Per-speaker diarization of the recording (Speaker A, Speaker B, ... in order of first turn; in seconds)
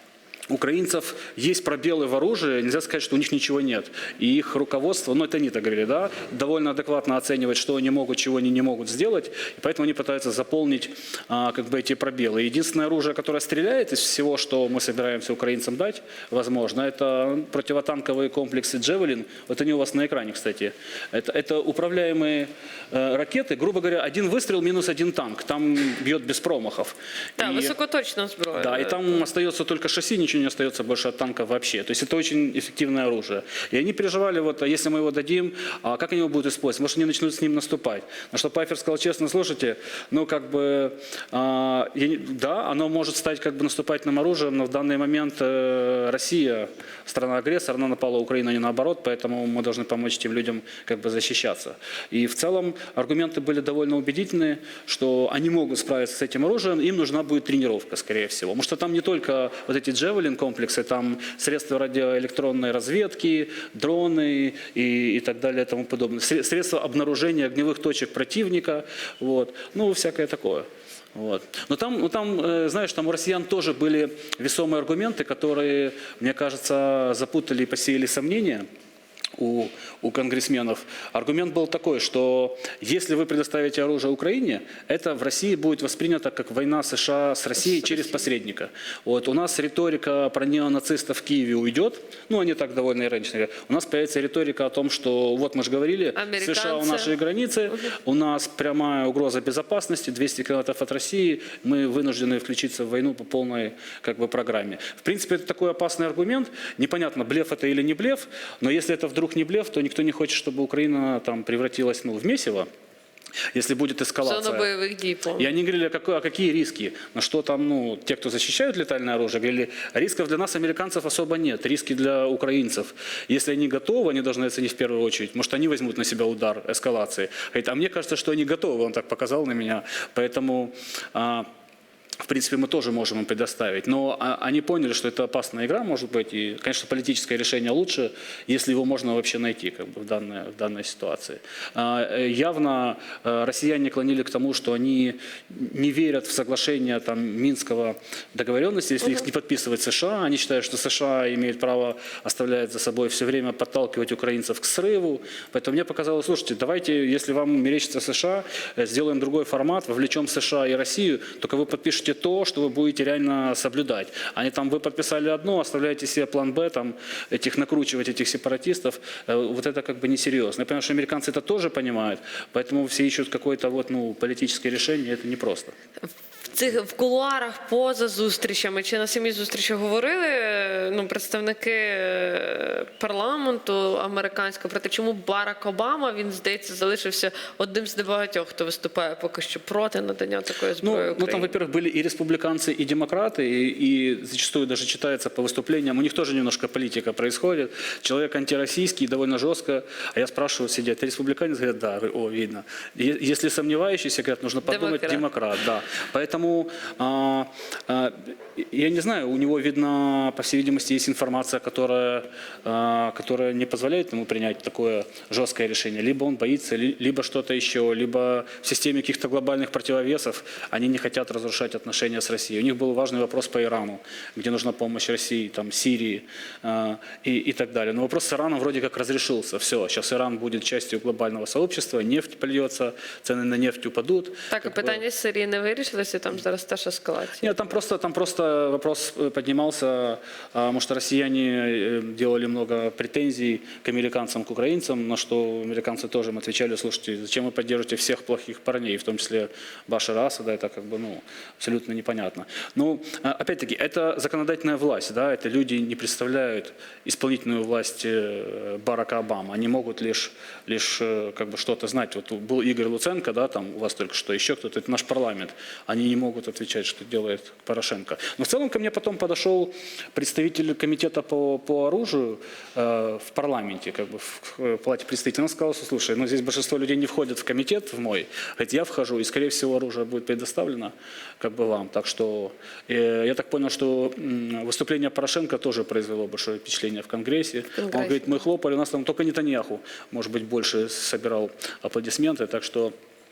Speaker A: 0.5-27.8, 28.5-78.7, 79.4-112.7, 113.5-114.7, 115.4-131.5, 132.2-175.7, 190.8-235.0, 237.4-292.9
Speaker B: 27.4-29.2, 87.8-88.1, 96.2-97.1, 114.2-115.5, 176.5-191.6, 204.6-205.3, 234.5-237.7, 287.8-288.4